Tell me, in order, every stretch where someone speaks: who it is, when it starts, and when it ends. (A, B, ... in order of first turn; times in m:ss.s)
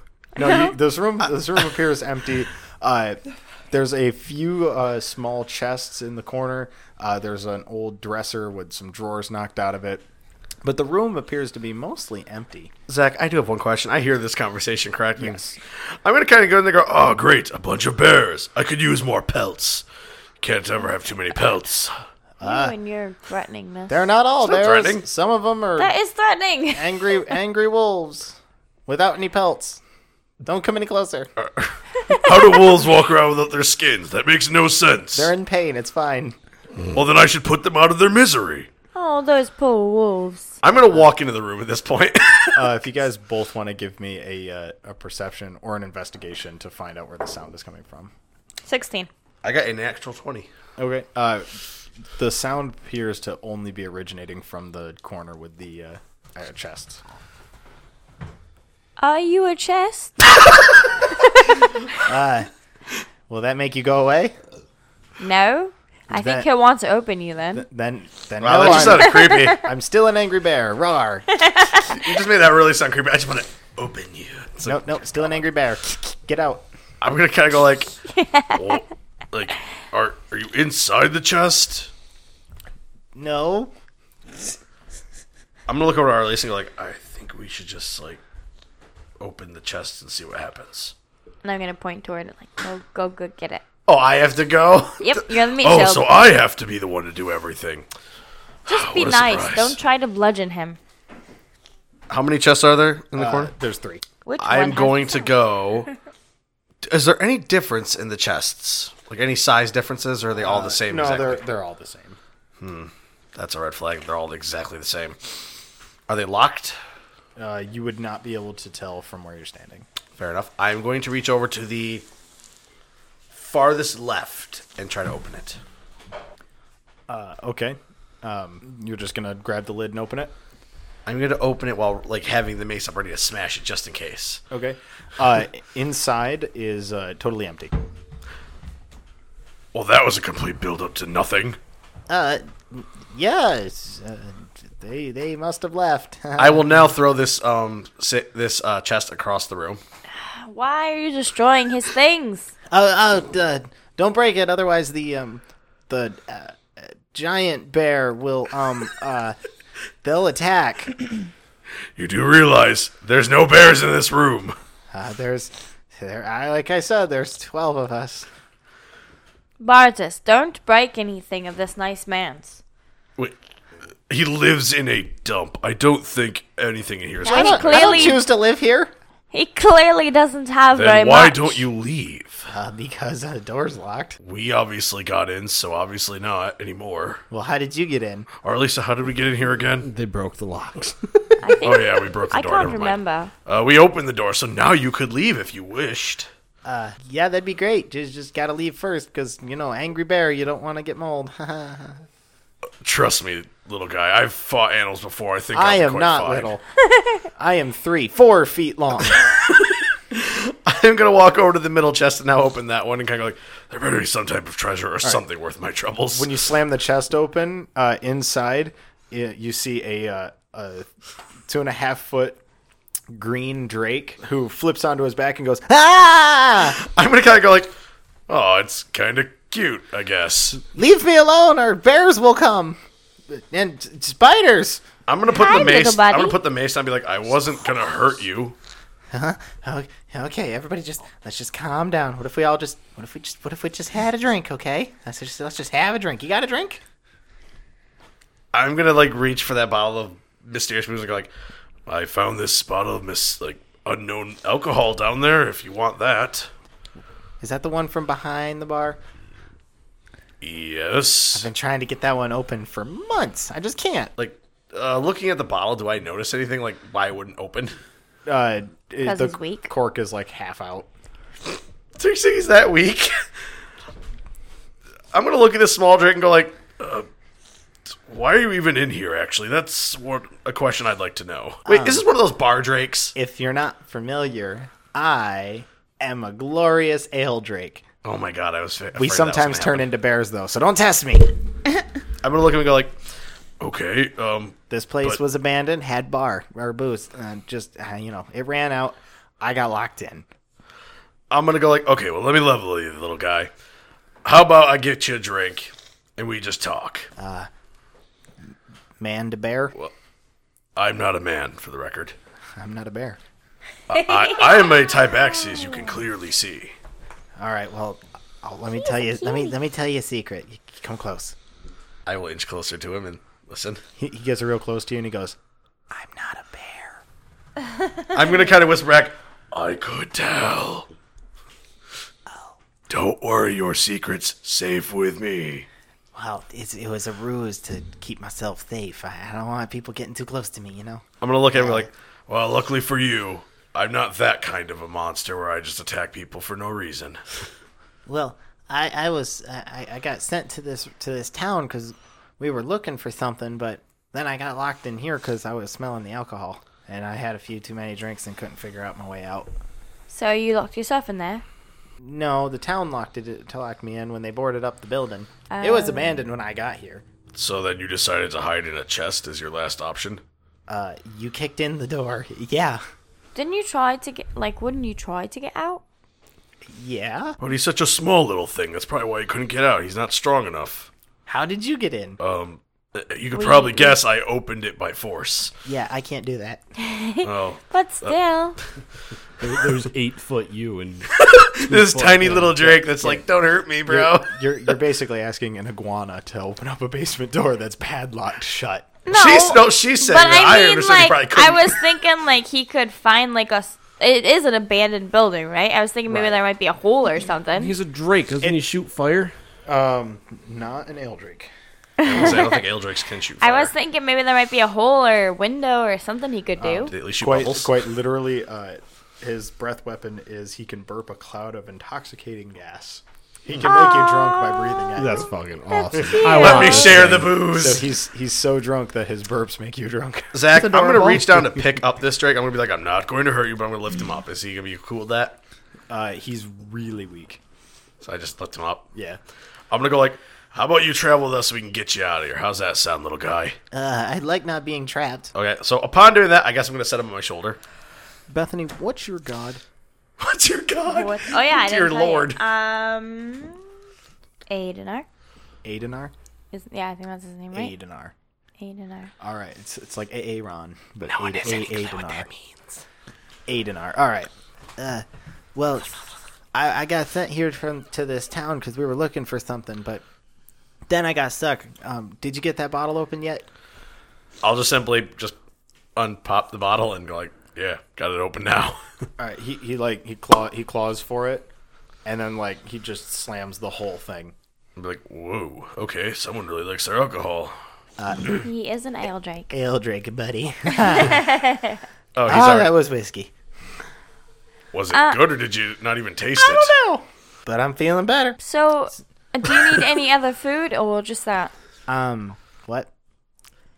0:00.4-0:10.0 A
0:00.4-0:00.8 B
0:10.6-0:12.7 A
0:12.9-0:19.8 C
0:15.2-0:15.6 A
0:20.4-0:22.0 C
0:22.4-0:24.0 B
0:22.4-0:22.7 A
0:23.9-0:25.9 A
0:23.9-0:24.5 D
0:24.4-0:25.0 C
0:25.8-0:27.2 B
0:26.8-0:28.3 A
0:28.9-0:29.8 D
0:30.4-0:31.3 D
0:31.4-0:35.3 C
0:32.1-0:32.4 B
0:35.2-0:36.3 A
0:36.9-0:38.7 C
0:38.9-0:40.6 B
0:40.6-0:42.7 C
0:42.5-0:48.1 A
0:48.6-0:49.1 B
0:49.4-0:50.5 C
0:50.8-0:51.6 A
0:52.2-0:57.0 A
0:59.0-1:00.4 B
1:01.3-1:01.6 B
1:02.0-1:02.5 D
1:03.3-1:04.3 D
1:05.2-1:07.6 B
1:06.1-1:06.4 A
1:07.5-1:11.2 A
1:08.4-1:09.6 C
1:09.1-1:09.5 B
1:10.8-1:11.2 D
1:11.4-1:12.0 B
1:11.8-1:15.0 C
1:14.6-1:16.7 A
1:17.0-1:17.9 C
1:18.1-1:18.8 B
1:18.5-1:21.9 C
1:23.1-1:23.7 D
1:25.7-1:28.2 C
1:29.2-1:30.9 C
1:31.4-1:33.6 B
1:33.9-1:37.9 C
1:35.0-1:36.1 B
1:38.6-1:39.8 C
1:38.7-1:40.8 B
1:42.1-1:43.5 C
1:43.1-1:44.0 A
1:44.2-1:45.4 B
1:44.4-1:45.9 C
1:46.8-1:51.4 C
1:50.4-1:52.2 A
1:52.6-1:55.2 C
1:56.1-1:56.8 C
1:57.4-1:59.9 A
2:00.2-2:02.1 C
2:03.3-2:05.6 C
2:07.1-2:10.3 A
2:11.0-2:14.4 C
2:14.5-2:17.8 A
2:19.7-2:21.6 C
2:22.1-2:26.6 D
2:26.4-2:29.8 C
2:30.1-2:32.5 B
2:32.7-2:39.3 D
2:40.0-2:41.0 D
2:42.0-2:44.6 C
2:44.9-2:48.3 D
2:49.6-2:52.6 B
2:54.1-2:58.2 C
2:57.2-2:58.2 B
2:57.3-2:58.9 D
2:57.6-2:58.1 A
2:59.3-3:01.6 B
3:00.7-3:02.5 C
3:02.5-3:04.2 D
3:04.2-3:07.2 C
3:07.3-3:08.2 D
3:08.4-3:09.9 C
3:09.8-3:11.4 E
3:11.4-3:13.3 B
3:11.6-3:16.3 C
3:16.6-3:22.0 D
3:22.8-3:26.5 C
3:25.6-3:26.6 A
3:25.7-3:26.5 D
3:27.4-3:29.1 A
3:27.5-3:29.0 D
3:29.2-3:36.4 C
3:36.1-3:40.9 A
3:41.5-3:42.4 A
3:43.1-3:45.8 A
3:45.7-3:46.8 D
3:46.6-3:47.7 C
3:48.3-3:50.6 C
3:50.7-3:52.8 D
3:53.3-3:54.8 D
3:55.1-3:58.6 C
3:55.3-3:56.4 B
3:59.1-4:06.8 D
4:08.5-4:11.3 C
4:11.8-4:16.5 C
4:17.4-4:19.0 D
4:20.4-4:21.5 C
4:21.4-4:24.1 D
4:24.2-4:27.8 C
4:28.2-4:30.9 A
4:29.0-4:29.7 B
4:31.9-4:33.2 C
4:35.1-4:37.1 C
4:38.0-4:43.1 C
4:41.7-4:42.0 D
4:43.2-4:47.8 D
4:43.2-4:46.7 A
4:47.3-4:47.8 A
4:48.0-4:49.9 C
4:49.0-4:51.0 A
4:50.6-4:51.2 D
4:52.2-4:53.0 C
4:53.6-4:55.2 C
4:54.7-4:55.8 A
4:55.4-4:58.9 D
4:57.8-5:00.2 A
4:59.5-5:00.2 D
5:01.3-5:03.5 C
5:04.2-5:07.1 C
5:07.2-5:07.4 D
5:09.0-5:09.7 A
5:09.2-5:09.7 D
5:10.8-5:12.2 C
5:12.6-5:13.2 A
5:13.9-5:16.8 C
5:14.1-5:15.9 B
5:17.4-5:18.0 A
5:17.8-5:21.3 D
5:22.0-5:23.8 C
5:24.0-5:25.4 A
5:25.9-5:27.0 D
5:28.1-5:30.9 C
5:32.9-5:35.7 C
5:36.1-5:41.0 D
5:41.2-5:47.5 C
5:48.0-5:59.5 D
6:00.1-6:01.4 B
6:02.0-6:03.8 D
6:02.1-6:06.3 A
6:05.5-6:06.3 B
6:05.8-6:07.0 D
6:07.3-6:10.2 C
6:10.7-6:12.8 D
6:13.3-6:15.8 B
6:16.7-6:17.3 D
6:17.4-6:20.9 C
6:21.3-6:22.2 D
6:22.2-6:25.5 C
6:23.3-6:24.0 B
6:25.6-6:26.6 D
6:26.8-6:28.6 B
6:27.2-6:28.1 C
6:29.4-6:32.8 E
6:31.2-6:34.7 C
6:32.6-6:33.2 A
6:33.8-6:38.9 A
6:39.0-6:47.7 B
6:39.1-6:41.8 C
6:46.1-6:46.4 A
6:47.6-6:49.3 E
6:49.6-6:51.5 A
6:52.0-6:52.6 B
6:52.0-6:53.7 C
6:53.4-6:56.9 B
6:56.6-7:05.3 A
6:56.9-6:57.7 C
7:03.6-7:05.0 B
7:05.0-7:07.3 E
7:05.7-7:07.1 B
7:06.1-7:07.9 C
7:06.9-7:11.3 A
7:10.3-7:15.4 C
7:10.9-7:11.2 E
7:15.9-7:17.4 A
7:18.0-7:18.9 C
7:18.9-7:19.2 A
7:19.7-7:23.6 C
7:23.7-7:25.3 D
7:25.4-7:27.6 C
7:28.3-7:29.6 A
7:30.2-7:32.4 C
7:30.9-7:33.6 B
7:34.5-7:35.1 B
7:35.6-7:36.1 A
7:36.5-7:37.7 B
7:37.5-7:38.1 A
7:38.6-7:39.1 B
7:39.2-7:42.2 A
7:41.1-7:42.7 C
7:41.4-7:42.2 D
7:43.5-7:44.3 A
7:44.8-7:46.0 D
7:46.5-7:50.0 D
7:50.9-7:53.4 D
7:54.4-7:55.4 C
7:56.0-7:58.8 C
7:59.2-8:01.5 A
8:02.0-8:04.3 A
8:04.8-8:07.6 C
8:08.0-8:08.3 D
8:08.2-8:09.5 B
8:09.5-8:11.4 D
8:10.7-8:11.8 B
8:12.2-8:12.7 C
8:12.3-8:13.3 D
8:14.7-8:16.7 C
8:14.9-8:15.3 B
8:16.4-8:18.4 D
8:18.4-8:21.5 B
8:21.9-8:22.8 A